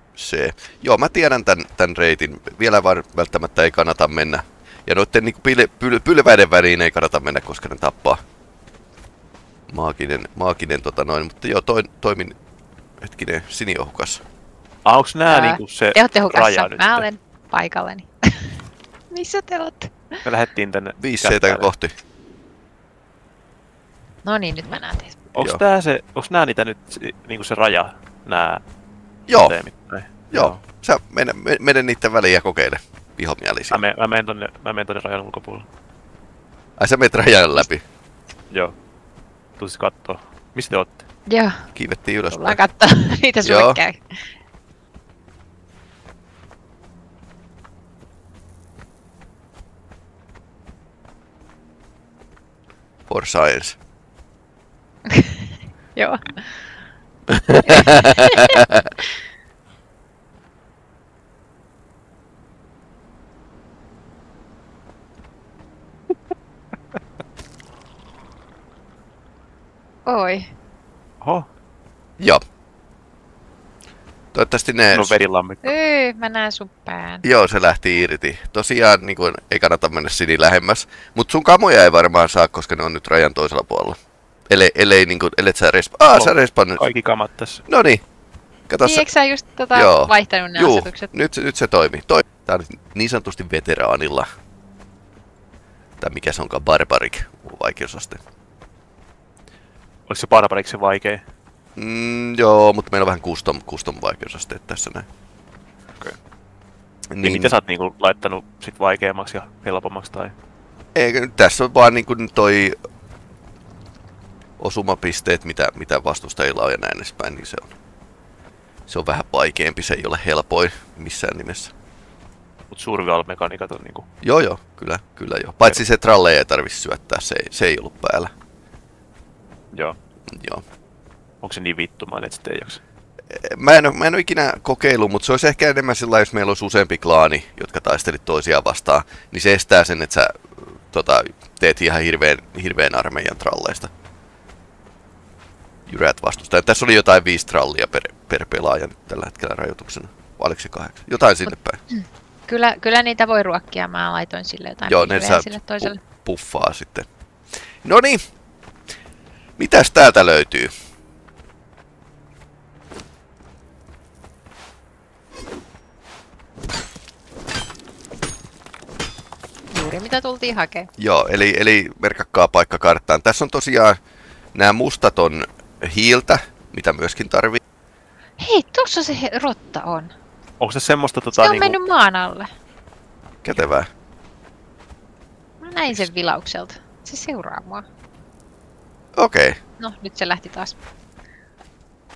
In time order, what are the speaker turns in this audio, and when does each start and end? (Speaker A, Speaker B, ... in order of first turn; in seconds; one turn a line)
Speaker A: 0.1-8.2
Speaker A: 9.7-12.3
Speaker A: 13.0-14.2
Speaker B: 14.8-17.1
Speaker C: 15.3-18.6
Speaker C: 19.1-19.9
Speaker B: 20.2-21.7
Speaker A: 21.0-21.9
Speaker C: 24.2-25.2
Speaker B: 25.3-28.6
Speaker A: 25.4-25.6
Speaker A: 29.3-29.6
Speaker B: 29.3-30.6
Speaker A: 30.3-33.8
Speaker B: 33.7-35.7
Speaker A: 36.8-37.8
Speaker B: 39.6-41.0
Speaker C: 41.3-41.7
Speaker A: 41.7-42.6
Speaker C: 42.3-44.3
Speaker A: 43.4-43.8
Speaker A: 53.1-53.8
Speaker C: 55.1-56.7
Speaker A: 57.3-58.9
Speaker C: 57.6-58.6
Speaker C: 70.0-70.5
Speaker B: 71.2-71.5
Speaker A: 74.3-75.2
Speaker B: 74.9-75.7
Speaker C: 75.6-77.2
Speaker A: 77.2-84.0
Speaker A: 84.5-86.8
Speaker B: 86.1-87.6
Speaker A: 87.7-88.0
Speaker A: 88.7-89.0
Speaker C: 88.8-91.1
Speaker A: 89.7-94.3
Speaker A: 96.0-98.2
Speaker B: 100.1-101.2
Speaker A: 101.8-105.1
Speaker A: 107.1-107.5
Speaker B: 107.2-110.3
Speaker A: 110.9-112.8
Speaker A: 114.6-117.7
Speaker A: 118.9-121.7
Speaker B: 122.7-124.0
Speaker A: 124.2-128.3
Speaker A: 130.3-130.6
Speaker B: 131.4-132.8
Speaker A: 133.3-143.9
Speaker A: 145.9-151.8
Speaker C: 151.9-156.0
Speaker A: 154.8-157.1
Speaker A: 157.8-158.2
Speaker A: 159.6-160.7
Speaker C: 169.7-170.9
Speaker A: 171.0-174.0
Speaker A: 174.5-177.6
Speaker C: 178.4-180.1
Speaker B: 180.6-181.8
Speaker C: 181.3-182.5
Speaker A: 183.4-183.9
Speaker C: 185.6-187.8
Speaker A: 189.2-189.6
Speaker C: 189.8-190.7